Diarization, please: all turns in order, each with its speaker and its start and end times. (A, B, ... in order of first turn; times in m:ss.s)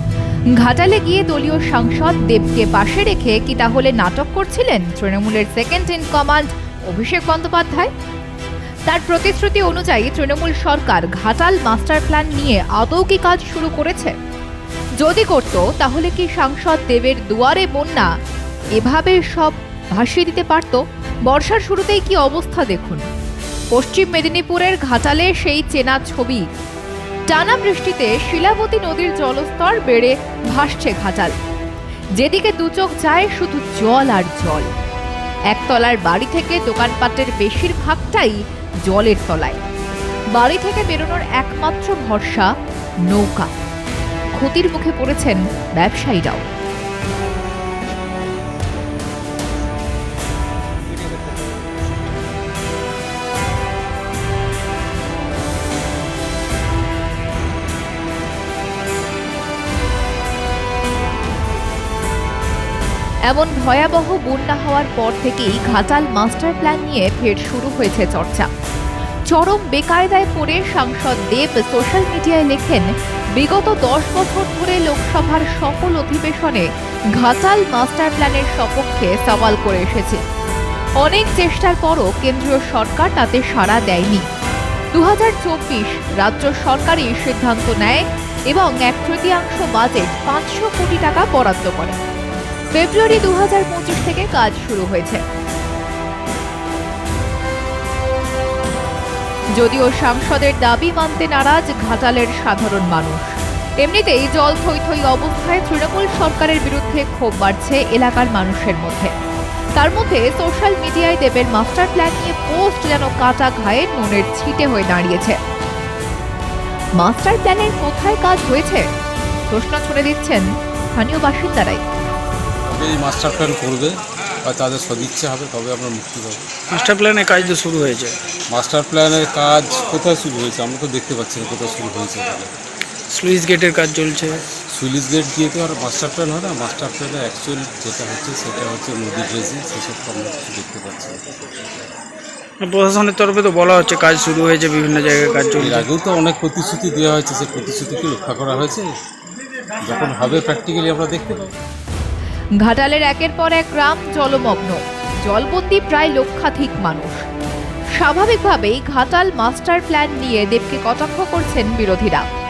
0:00.6-0:07.9 A
0:08.9-0:14.2 A
0:15.0-0:18.1 A
0:18.8-0:23.0 A
0:23.7-0:26.5 A
0:27.3-0:31.4 A
0:32.2-0:34.7 A
0:35.5-0:39.6 A
0:40.3-0:42.5 A
0:43.1-0:43.5 A
0:44.4-0:46.4 A
1:03.3-1:08.5 A
1:09.3-1:20.2 A
1:21.0-1:24.3 A
1:24.9-1:32.0 A
1:32.7-1:35.2 A
1:39.6-1:49.1 A
1:49.8-1:55.4 A
1:57.0-1:58.9 A
1:59.5-2:01.8 A
2:02.7-2:06.5 B
2:06.7-2:08.2 C
2:08.5-2:12.5 B
2:13.1-2:14.4 C
2:14.6-2:21.2 B
2:22.6-2:25.9 C
2:25.6-2:29.0 B
2:29.8-2:31.5 B
2:32.6-2:37.2 A
2:38.0-2:42.3 A